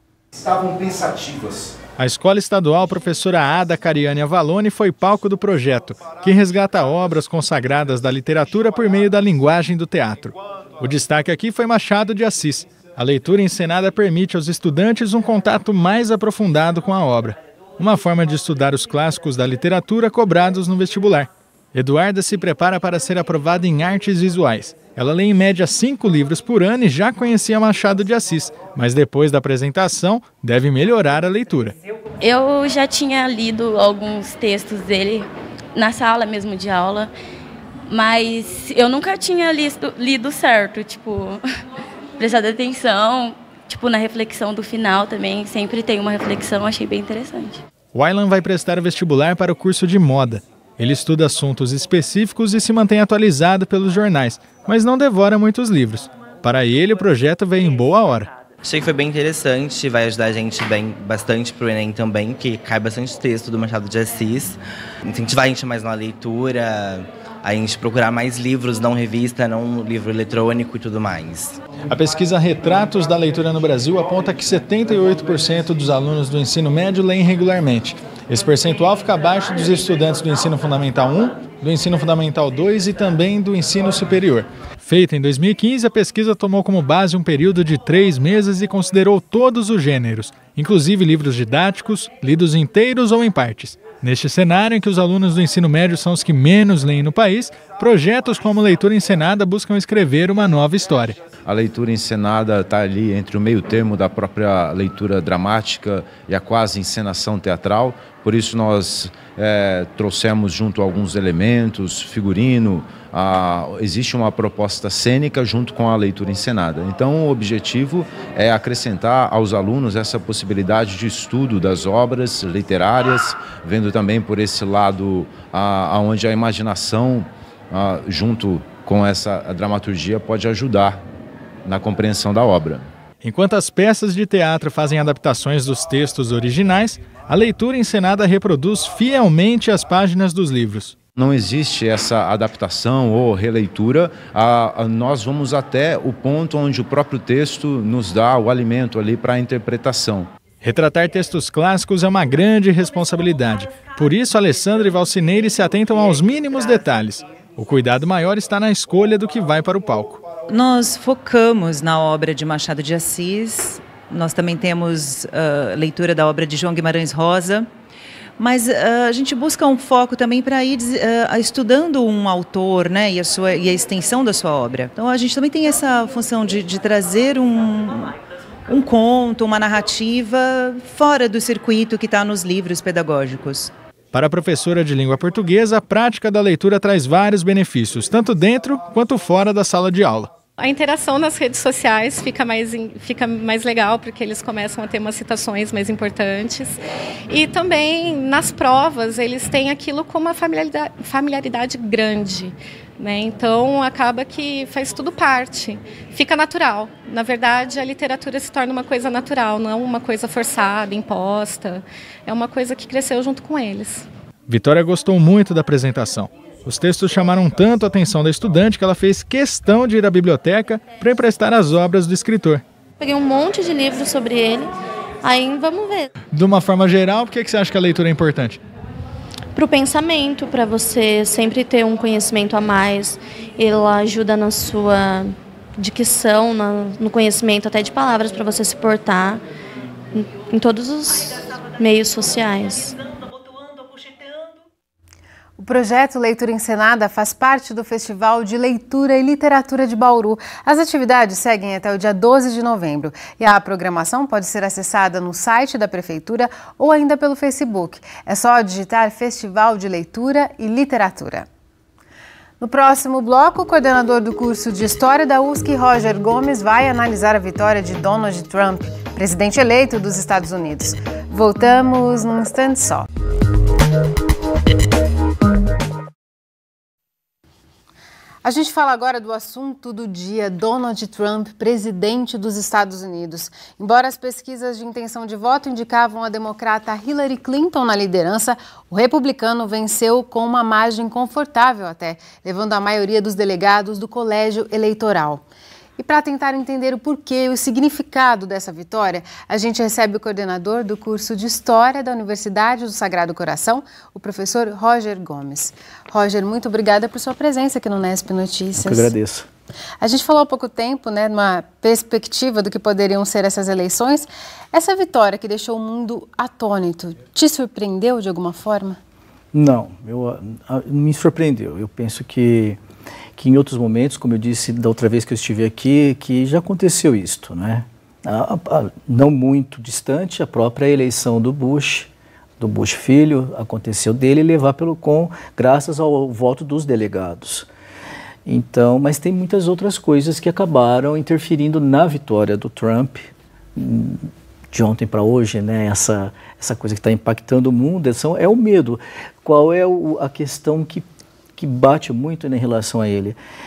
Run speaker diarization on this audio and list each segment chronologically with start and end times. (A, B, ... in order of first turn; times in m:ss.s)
0:00.4-0:01.7 A
0:02.0-0:31.7 B
0:32.2-0:37.1 C
0:37.9-0:41.4 C
0:42.2-0:47.6 C
0:47.9-0:58.3 B
0:58.6-1:11.6 A
1:11.9-1:41.2 B
1:41.4-2:11.0 D
2:11.6-2:12.9 D
2:13.2-2:21.0 B
2:21.1-2:30.3 D
2:30.6-2:40.2 B
2:40.5-2:47.7 E
2:48.4-2:58.1 E
2:58.7-3:03.7 E
3:04.1-3:10.3 B
3:10.6-3:16.8 F
3:17.3-3:34.1 F
3:34.5-3:42.6 B
3:43.0-3:44.7 G
3:45.2-3:46.1 G
3:46.3-3:48.6 B
3:49.5-3:59.4 G
4:00.1-4:03.0 G
4:05.6-4:21.5 H
4:22.6-4:33.0 H
4:38.4-4:55.4 H
4:56.0-5:09.1 H
5:08.8-5:09.5 I
5:10.0-5:19.0 H
5:19.5-5:22.8 I
5:23.4-5:37.7 I
5:38.4-5:53.4 I